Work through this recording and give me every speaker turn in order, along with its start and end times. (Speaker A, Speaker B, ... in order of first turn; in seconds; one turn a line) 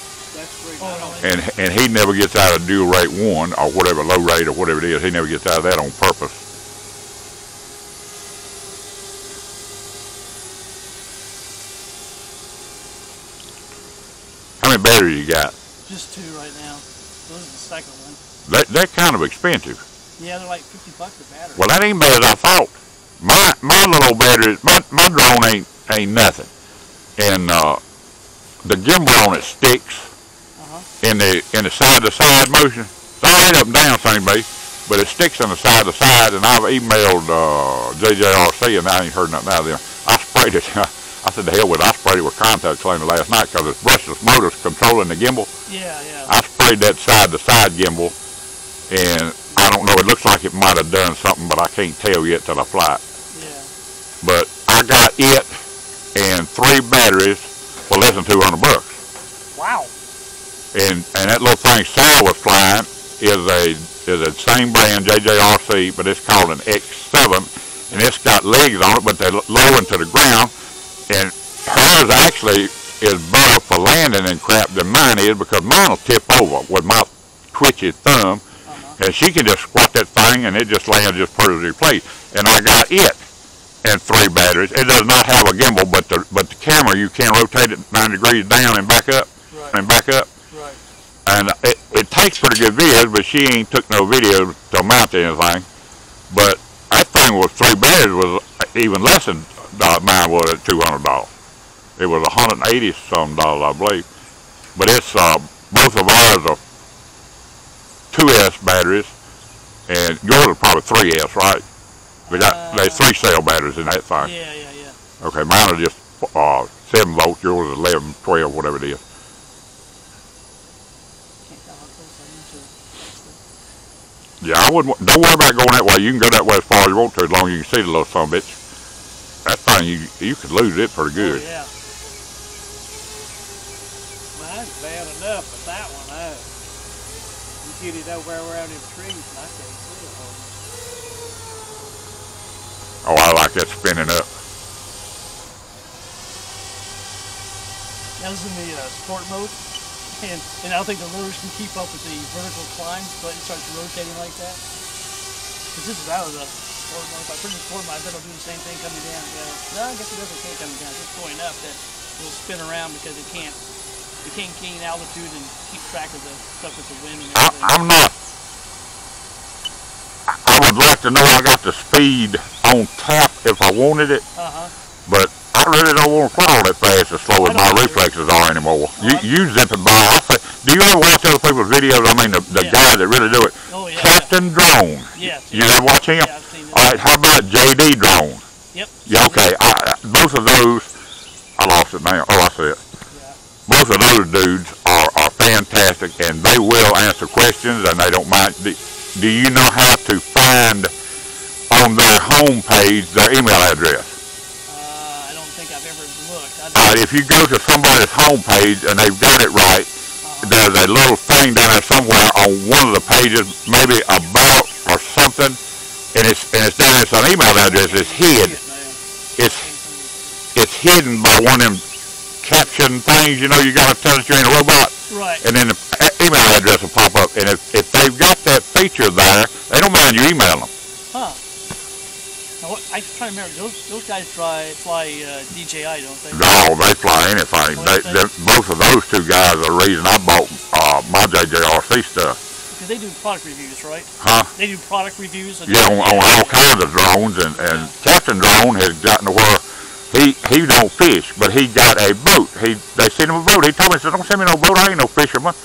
Speaker A: 0.3-1.3
Speaker B: 0.8-1.3
Speaker C: 1.2-6.4
Speaker C: 14.6-15.6
Speaker B: 15.9-18.2
Speaker C: 18.5-19.8
Speaker B: 20.2-21.7
Speaker C: 21.6-26.5
Speaker C: 27.2-27.8
Speaker C: 28.6-30.1
Speaker B: 30.6-30.9
Speaker C: 31.0-45.5
Speaker B: 45.7-46.3
Speaker C: 46.3-48.1
Speaker C: 48.9-53.0
Speaker B: 53.3-53.7
Speaker C: 54.2-55.5
Speaker C: 56.1-59.0
Speaker B: 59.6-59.9
Speaker C: 60.7-70.5
Speaker C: 71.1-78.4
Speaker B: 78.7-79.0
Speaker C: 79.0-83.2
Speaker C: 83.8-90.3
Speaker B: 89.5-89.8
Speaker B: 90.5-90.8
Speaker C: 91.3-95.7
Speaker C: 96.3-101.3
Speaker C: 102.0-104.1
Speaker C: 104.8-106.6
Speaker C: 108.1-109.1
Speaker C: 109.9-111.6
Speaker B: 112.3-113.0
Speaker C: 112.3-114.3
Speaker B: 114.2-115.0
Speaker C: 115.2-119.0
Speaker B: 121.5-123.4
Speaker C: 124.4-128.6
Speaker C: 129.4-131.4
Speaker B: 131.2-131.7
Speaker A: 134.3-136.5
Speaker A: 137.6-140.5
Speaker C: 143.0-144.3
Speaker B: 148.2-149.6
Speaker B: 150.1-154.6
Speaker B: 155.7-163.6
Speaker B: 164.2-167.8
Speaker C: 167.3-168.1
Speaker C: 170.3-174.2
Speaker B: 174.4-174.7
Speaker C: 175.1-188.4
Speaker B: 177.4-178.0
Speaker B: 179.0-179.3
Speaker B: 182.5-182.8
Speaker B: 183.7-184.3
Speaker B: 185.1-187.0
Speaker B: 188.7-189.4
Speaker C: 189.1-190.9
Speaker C: 191.6-192.8
Speaker B: 193.1-193.4
Speaker C: 193.7-200.9
Speaker C: 201.7-204.2
Speaker B: 204.7-207.0
Speaker C: 206.8-209.9
Speaker B: 210.2-210.6
Speaker C: 210.4-215.6
Speaker C: 216.1-218.6
Speaker A: 217.6-219.0
Speaker C: 219.4-219.7
Speaker A: 219.7-220.1
Speaker C: 220.6-221.8
Speaker C: 222.4-230.7
Speaker B: 225.1-225.4
Speaker B: 231.1-231.4
Speaker B: 232.6-236.6
Speaker C: 236.3-242.4
Speaker B: 237.8-238.2
Speaker B: 242.7-246.6
Speaker C: 244.2-244.5
Speaker C: 245.7-255.6
Speaker B: 247.6-247.9